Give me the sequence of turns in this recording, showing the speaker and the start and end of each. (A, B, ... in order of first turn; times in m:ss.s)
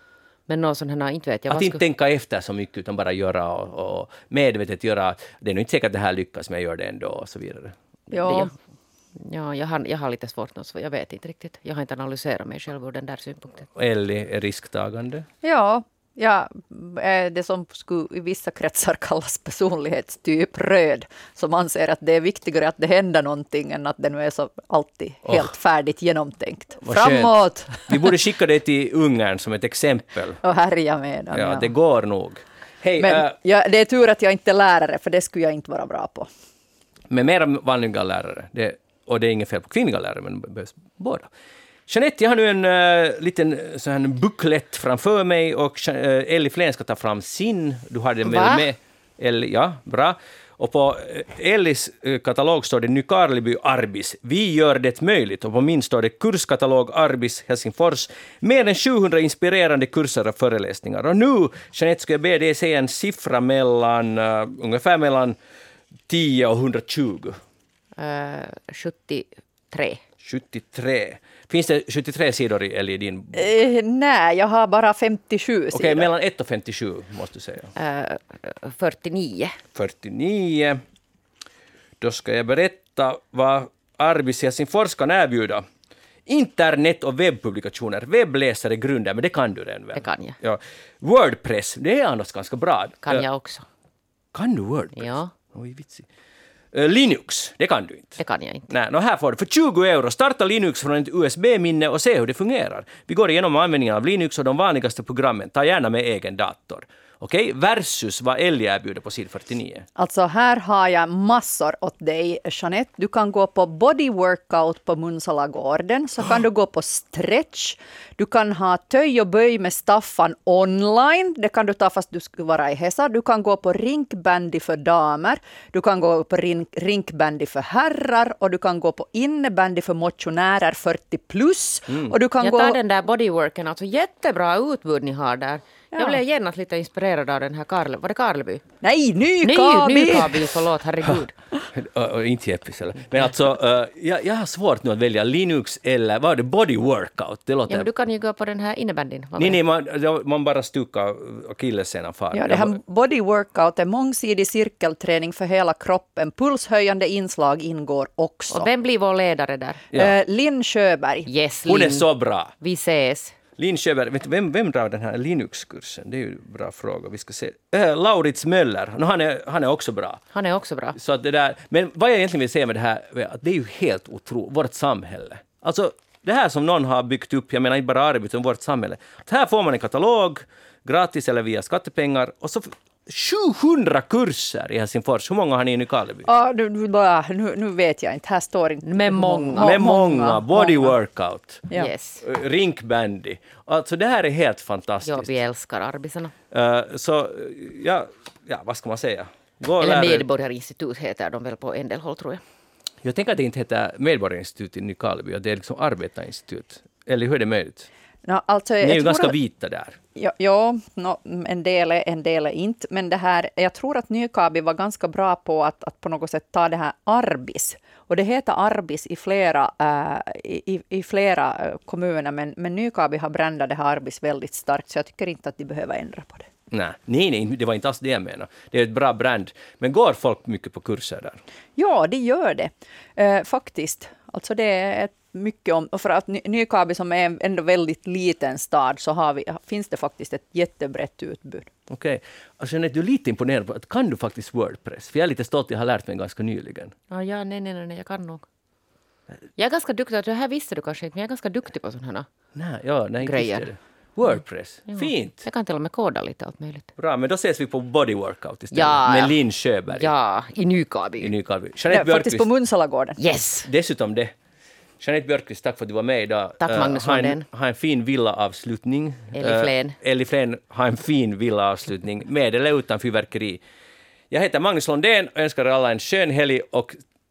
0:00.5-0:01.8 A
0:01.5-0:07.8 B
0:08.1-0:08.5 C
0:08.2-0:08.5 A
0:09.2-0:13.7 A
0:13.8-0:15.3 B
0:15.4-0:28.0 C
0:25.2-0:25.5 B
0:26.8-0:30.4 B
0:30.4-0:31.7 C
0:31.3-0:33.3 B
0:33.0-0:36.3 C
0:37.1-0:41.3 B
0:41.9-1:05.4 B
0:48.2-0:48.7 A
1:06.1-1:07.4 B
1:08.0-1:10.0 A
1:10.2-1:13.5 B
1:13.3-1:16.1 C
1:15.7-1:17.7 B
1:17.8-1:19.6 A
1:19.7-1:20.8 B
1:22.0-1:25.6 B
1:26.3-1:33.3 B
1:30.0-1:30.4 A
1:33.0-1:33.7 A
1:34.3-1:36.1 B
1:35.0-1:35.3 A
1:36.7-1:49.9 B
1:38.2-1:38.7 A
1:50.0-2:12.8 C
2:12.4-2:18.6 A
2:15.9-2:16.2 C
2:18.8-2:20.6 C
2:19.4-2:21.4 A
2:21.8-2:27.9 B
2:27.7-2:29.6 A
2:29.4-2:32.8 B
2:32.3-2:38.7 C
2:38.5-2:39.8 A
2:39.9-2:41.3 C
2:41.3-2:42.1 A
2:41.7-2:42.5 B
2:42.6-2:43.4 A
2:43.6-2:50.2 B
2:50.3-2:51.0 A
2:51.0-3:06.3 B
3:06.3-3:11.0 C
3:08.8-3:09.8 A
3:09.6-3:15.4 B
3:11.7-3:12.2 A
3:15.0-3:16.4 A
3:16.5-3:20.3 B
3:19.8-3:22.4 A
3:23.0-3:27.9 B
3:28.2-3:29.4 C
3:28.8-3:30.0 B
3:30.2-3:46.5 C
3:46.7-3:51.4 B
3:51.8-4:01.7 C
4:01.9-4:07.0 B
4:07.1-4:08.5 A
4:09.6-4:12.3 A
4:12.6-4:15.4 B
4:13.2-4:13.7 A
4:14.9-4:16.9 A
4:17.0-4:20.1 B
4:18.7-4:19.4 A
4:19.9-4:21.3 A
4:21.2-4:22.5 B
4:21.9-4:23.2 C
4:23.2-4:23.7 A
4:23.6-4:24.3 B
4:25.0-4:33.6 B
4:26.6-4:27.4 A
4:29.3-4:30.0 A
4:34.3-4:37.0 B